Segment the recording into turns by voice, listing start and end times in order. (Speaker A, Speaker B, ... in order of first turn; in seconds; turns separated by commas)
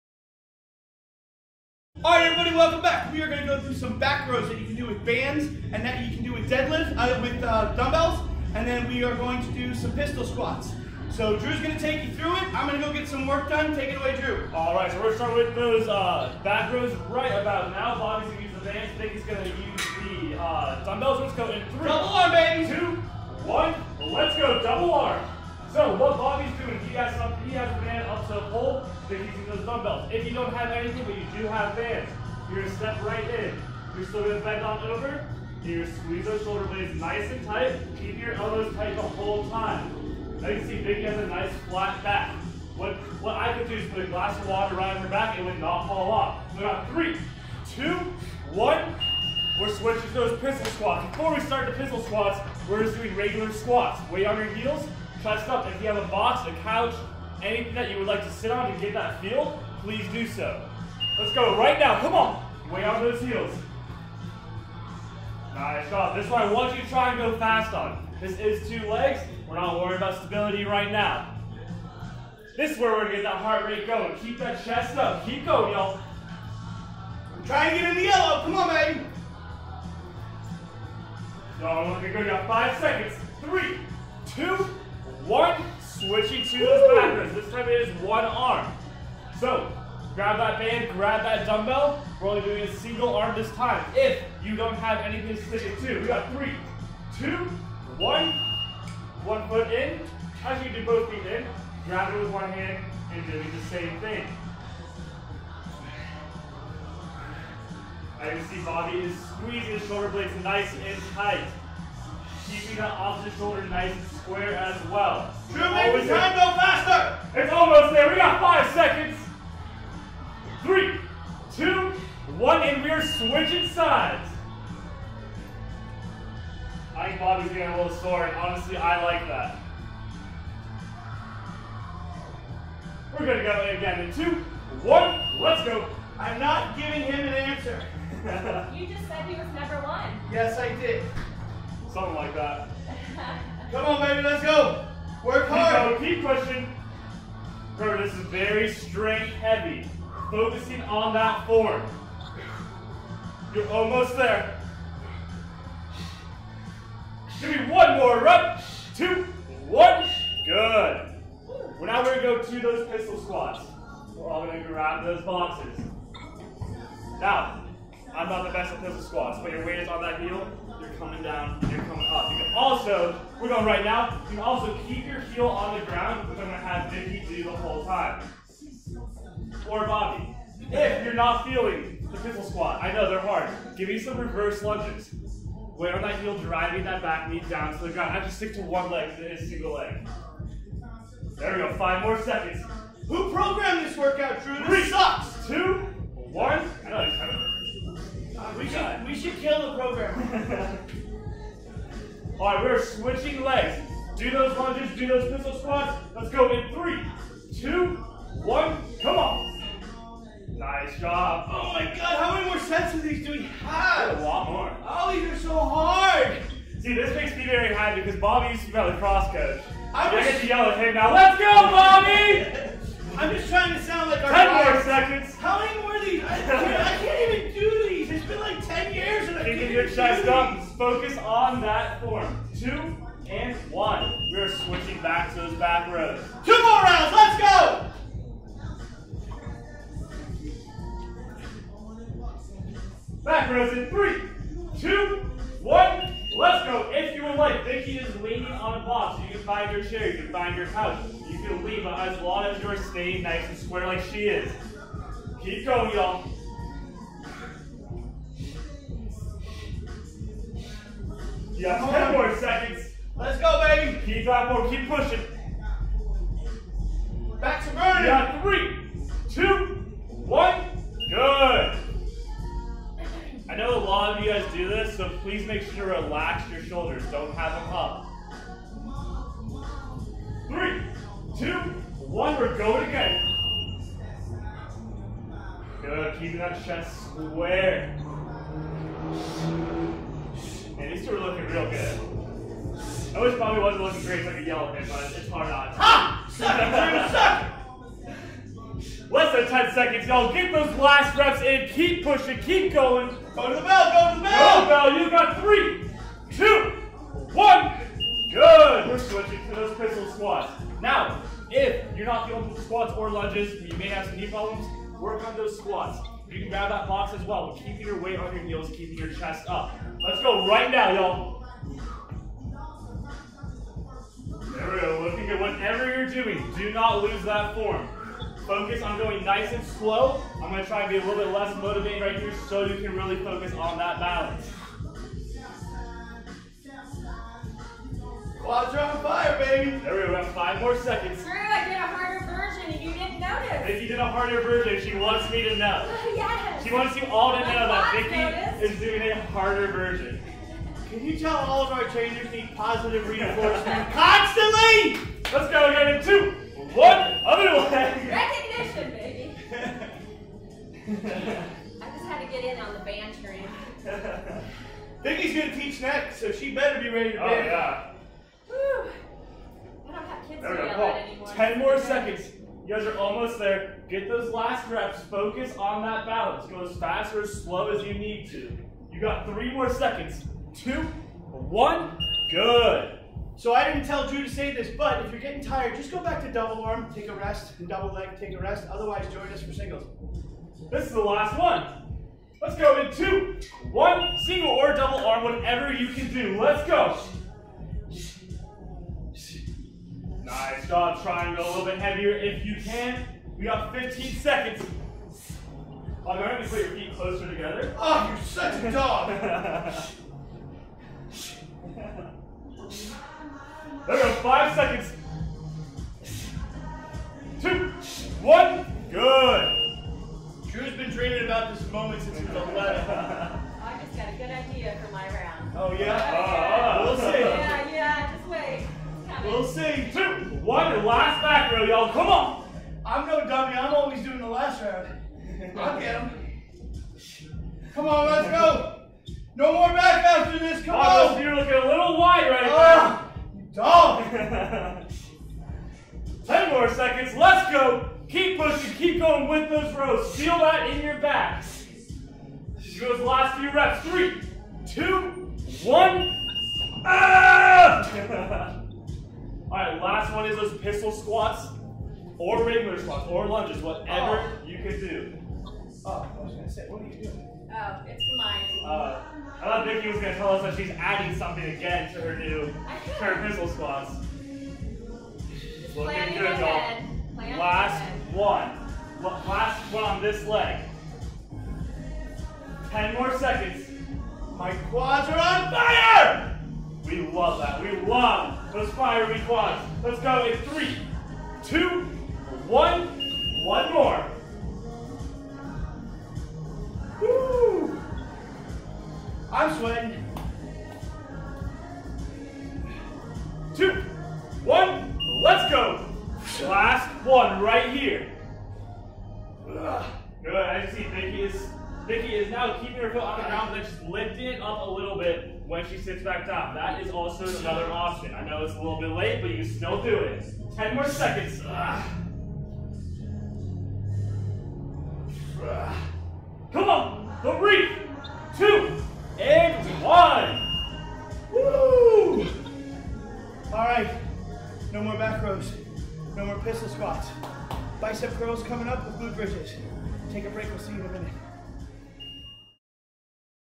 Speaker A: 2.0-14.5, Speaker B: 14.5-49.0, Speaker A: 21.8-22.8, Speaker B: 49.5-63.6, Speaker B: 65.5-71.3, Speaker B: 72.5-76.0, Speaker A: 77.3-79.1, Speaker B: 81.6-88.8, Speaker B: 89.3-98.4, Speaker B: 99.2-104.4, Speaker B: 108.2-111.5, Speaker B: 112.4-116.4, Speaker A: 115.5-117.2, Speaker B: 117.3-119.3, Speaker B: 120.6-124.3, Speaker B: 126.9-129.6, Speaker B: 133.1-135.9, Speaker A: 136.2-137.9, Speaker B: 138.1-138.7, Speaker C: 138.7-140.2, Speaker A: 140.2-141.1, Speaker B: 141.8-142.7, Speaker C: 142.9-143.5, Speaker A: 143.7-146.0, Speaker B: 145.5-146.7, Speaker B: 147.7-151.9, Speaker B: 153.5-154.5, Speaker B: 157.3-165.9, Speaker B: 167.2-178.2, Speaker B: 179.6-185.1, Speaker A: 180.7-181.1, Speaker B: 185.7-190.1, Speaker B: 191.4-192.7, Speaker A: 193.1-195.4, Speaker B: 194.5-197.5, Speaker A: 198.3-200.4, Speaker B: 198.4-199.0, Speaker B: 200.2-200.8, Speaker B: 202.4-209.5, Speaker B: 210.5-211.7, Speaker A: 211.5-214.2, Speaker B: 213.9-214.8, Speaker A: 214.8-216.4, Speaker B: 216.8-222.7, Speaker A: 219.9-220.5, Speaker A: 223.1-230.6, Speaker B: 224.2-225.4, Speaker B: 226.4-226.9, Speaker B: 229.4-236.3, Speaker A: 236.4-237.9, Speaker B: 243.2-254.6, Speaker B: 255.4-256.2, Speaker B: 261.5-262.9, Speaker A: 261.6-262.4, Speaker A: 263.1-264.1, Speaker B: 264.0-265.3, Speaker A: 267.4-268.3, Speaker B: 267.9-271.8, Speaker B: 273.5-278.1, Speaker B: 280.5-283.3, Speaker B: 285.8-287.9, Speaker B: 290.7-292.0, Speaker B: 293.1-297.3, Speaker A: 295.8-297.5, Speaker B: 299.1-303.2, Speaker A: 303.3-304.9, Speaker B: 304.2-321.4, Speaker B: 324.5-327.9, Speaker B: 328.4-334.5, Speaker A: 338.4-339.8, Speaker B: 339.8-341.2, Speaker C: 341.2-343.8, Speaker B: 343.6-345.9, Speaker C: 345.8-348.8, Speaker B: 346.6-350.2, Speaker A: 350.9-355.1, Speaker B: 353.2-353.7, Speaker B: 355.3-358.2, Speaker C: 358.0-359.4, Speaker A: 359.5-359.9, Speaker B: 360.9-361.5, Speaker C: 361.8-363.6, Speaker B: 363.8-364.4, Speaker A: 365.0-367.7, Speaker B: 367.1-367.8, Speaker C: 368.5-369.0, Speaker C: 369.8-372.2, Speaker B: 370.4-382.9, Speaker A: 383.4-389.9, Speaker B: 390.7-391.7, Speaker B: 392.4-397.1, Speaker B: 400.2-404.7, Speaker B: 406.0-407.7, Speaker A: 407.7-409.3, Speaker B: 408.6-409.8, Speaker B: 413.8-415.0, Speaker B: 417.4-419.6, Speaker A: 420.4-423.2, Speaker B: 422.1-423.4, Speaker C: 423.6-429.5, Speaker A: 425.5-427.6, Speaker B: 425.7-427.6, Speaker A: 429.2-429.9, Speaker B: 429.9-432.4, Speaker A: 432.8-434.9, Speaker B: 435.4-435.8, Speaker A: 435.5-436.2, Speaker A: 437.7-438.7, Speaker A: 439.3-441.2, Speaker B: 440.7-443.0, Speaker A: 442.4-444.1, Speaker B: 443.9-444.8, Speaker B: 446.2-451.6, Speaker B: 452.6-456.1, Speaker B: 456.8-458.5, Speaker B: 459.5-461.5, Speaker B: 462.2-465.1, Speaker A: 463.9-464.3, Speaker A: 465.8-467.2, Speaker C: 467.5-468.6, Speaker B: 468.6-474.0, Speaker C: 472.6-473.3, Speaker C: 475.6-478.0, Speaker B: 475.6-480.7, Speaker B: 482.6-483.7, Speaker A: 484.3-486.3, Speaker B: 486.8-490.8, Speaker B: 491.4-494.1, Speaker A: 497.0-497.8, Speaker A: 499.3-500.0, Speaker B: 503.5-503.9, Speaker B: 504.4-508.1, Speaker A: 509.4-509.9, Speaker B: 510.2-521.8, Speaker A: 513.1-513.5, Speaker A: 525.3-525.8, Speaker B: 526.5-530.5, Speaker A: 531.3-532.3, Speaker A: 533.5-534.0, Speaker A: 534.7-535.6, Speaker A: 536.1-537.1, Speaker A: 537.8-541.1